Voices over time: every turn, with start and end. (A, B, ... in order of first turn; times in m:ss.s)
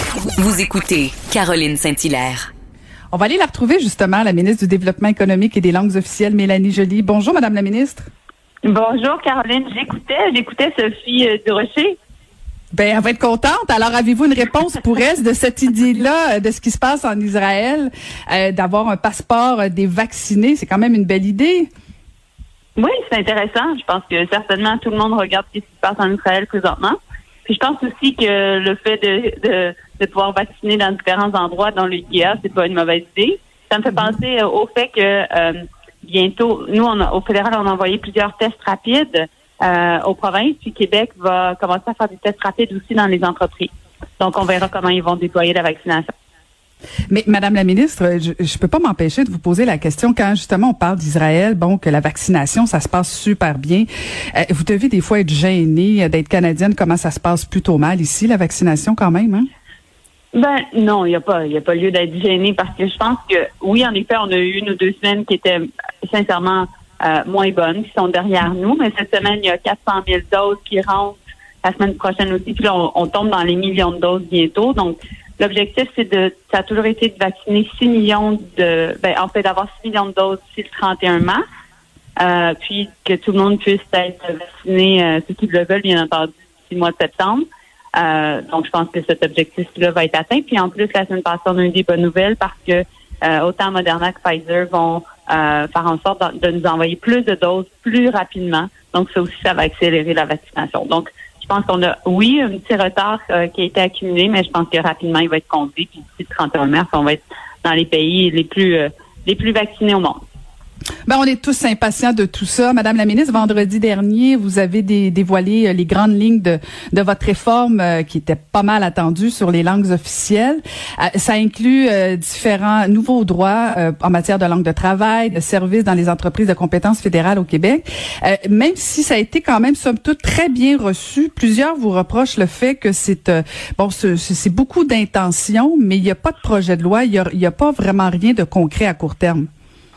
0:00.4-0:02.5 A
0:03.1-0:08.1 B
0:08.6-0:12.0 C
0:12.7-0:21.7 B
0:22.8-0:46.1 C
0:47.1-0:59.5 B
1:00.3-1:21.4 C
1:22.2-1:50.2 C
1:51.1-2:19.5 B